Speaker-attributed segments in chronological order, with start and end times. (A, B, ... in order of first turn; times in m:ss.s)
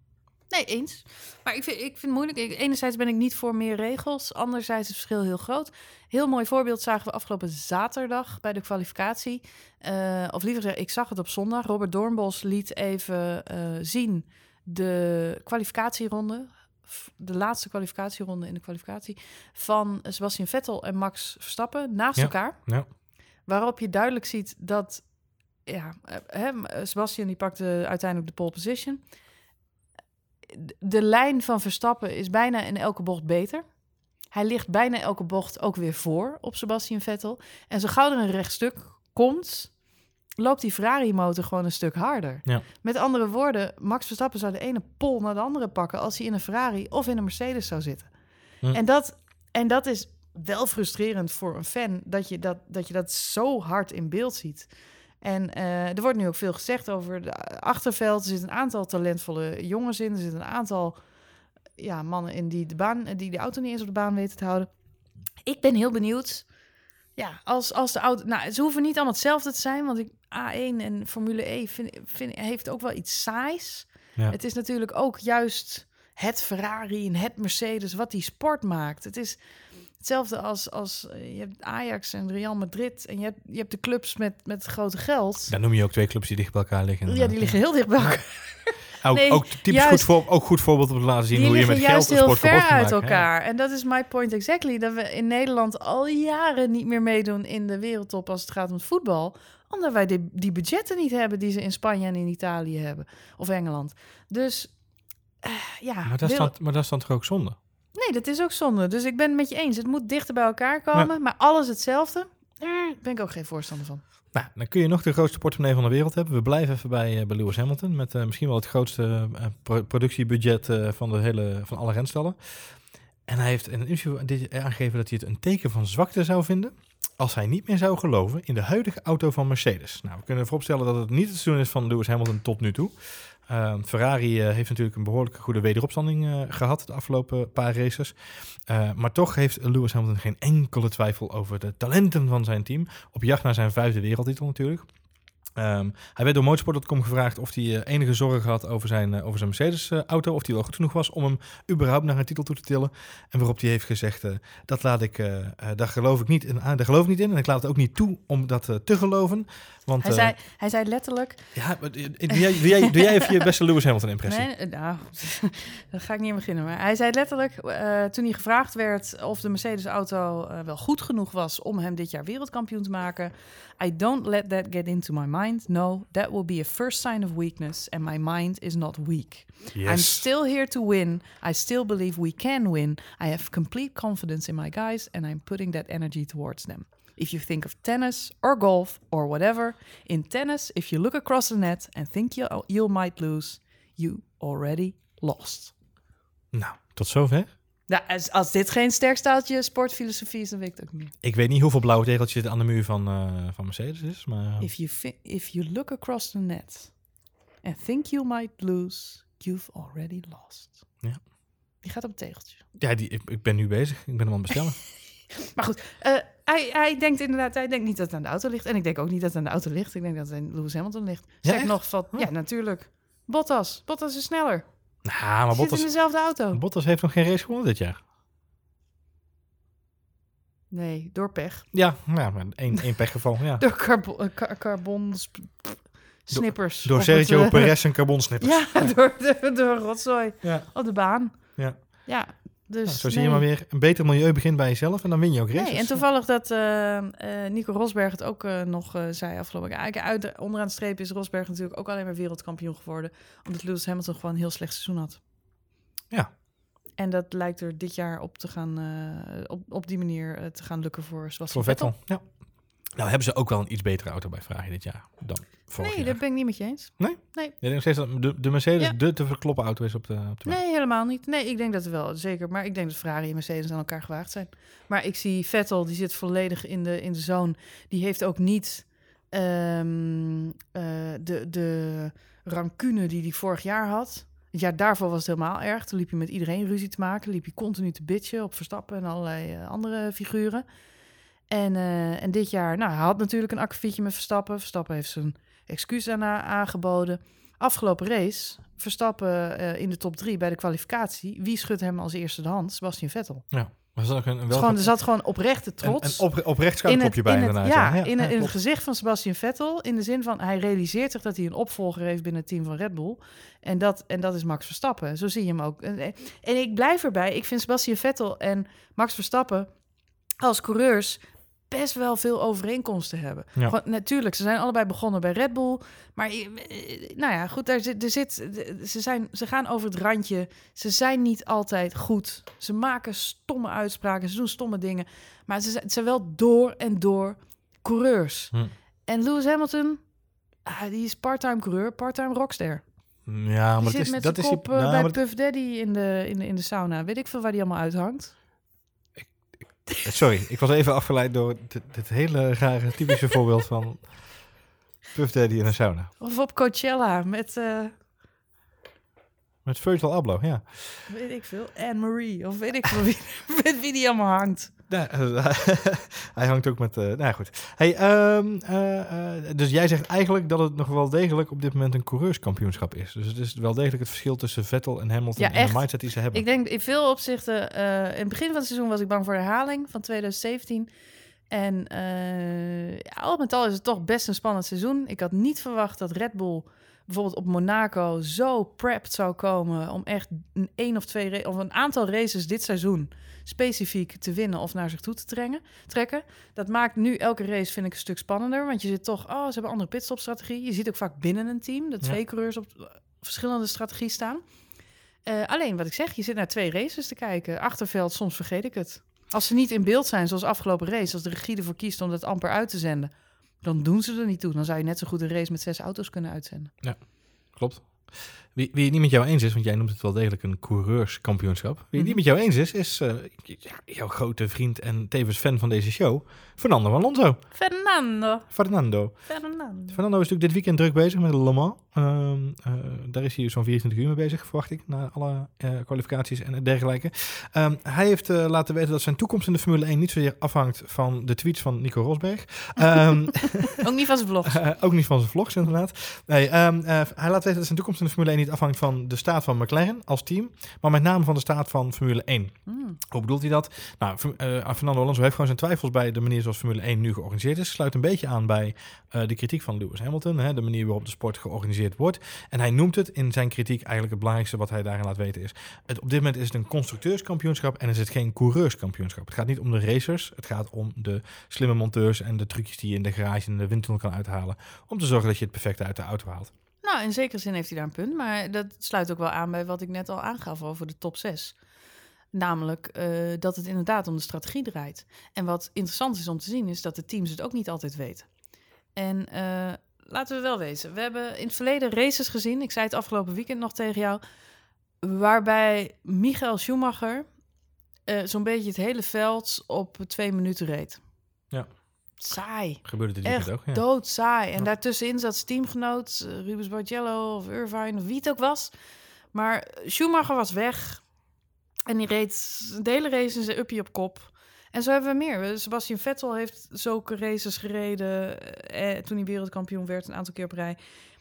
0:00.5-0:22.9 A
0:22.2-0:22.9 B
0:23.4-0:25.1 A
0:25.6-0:29.1 A
0:30.5-0:33.7 A
0:34.3-0:39.8 A
0:40.4-1:01.0 A
1:01.8-1:04.7 A
1:05.4-1:06.5 A
1:07.2-1:19.4 A
1:19.9-1:25.5 A
1:25.5-1:27.6 B
1:27.1-1:30.1 A
1:29.0-1:33.2 B
1:31.3-1:44.8 A
1:45.4-1:46.5 A
1:46.1-1:47.6 B
1:48.0-1:54.0 A
1:54.3-2:24.9 B
2:25.6-2:40.4 B
2:40.0-2:41.6 A
2:41.6-2:44.5 B
2:44.3-3:15.7 A
2:59.7-3:00.2 B
3:16.5-3:17.5 B
3:17.9-3:21.1 A
3:21.2-3:24.7 B
3:24.6-3:27.0 A
3:27.6-3:30.9 A
3:31.8-3:32.6 A
3:32.8-3:34.8 B
3:35.4-3:44.6 A
3:41.4-3:42.3 B
3:45.0-3:48.0 B
3:45.5-3:46.6 A
3:50.7-3:51.7 A
3:51.7-3:53.6 B
3:53.6-4:03.4 A
3:56.3-3:58.9 B
4:00.4-4:00.7 B
4:01.6-4:02.1 B
4:02.9-4:06.0 B
4:05.6-4:15.2 A
4:17.0-4:21.9 A
4:21.5-4:30.6 B
4:25.8-4:27.6 A
4:30.4-4:50.6 A
4:51.5-5:03.5 A
5:03.5-5:08.6 B
5:04.5-5:19.7 A
5:20.4-5:38.6 A
5:39.1-5:40.0 A
5:40.6-5:42.8 A
5:43.3-5:45.2 B
5:43.8-5:48.3 A
5:49.2-5:54.5 B
5:55.1-5:56.1 B
5:56.2-5:57.9 A
5:59.6-6:01.1 B
6:01.1-6:04.7 A
6:04.9-6:16.4 B
6:15.4-6:20.9 A
6:21.5-6:44.4 A
6:45.2-6:56.7 A
6:56.8-7:07.4 B
7:02.0-7:02.2 A
7:07.5-7:08.5 A
7:08.5-7:23.8 B
7:09.3-7:10.0 A
7:23.6-7:24.6 A
7:24.5-7:56.5 B
7:32.7-7:33.0 A
7:56.8-8:01.6 A
8:02.3-8:08.3 A
8:08.9-8:14.2 A
8:15.0-8:17.3 A
8:18.1-8:21.0 A
8:22.2-8:28.7 A
8:22.8-8:24.0 B
8:29.3-8:31.1 A
8:31.9-8:40.8 A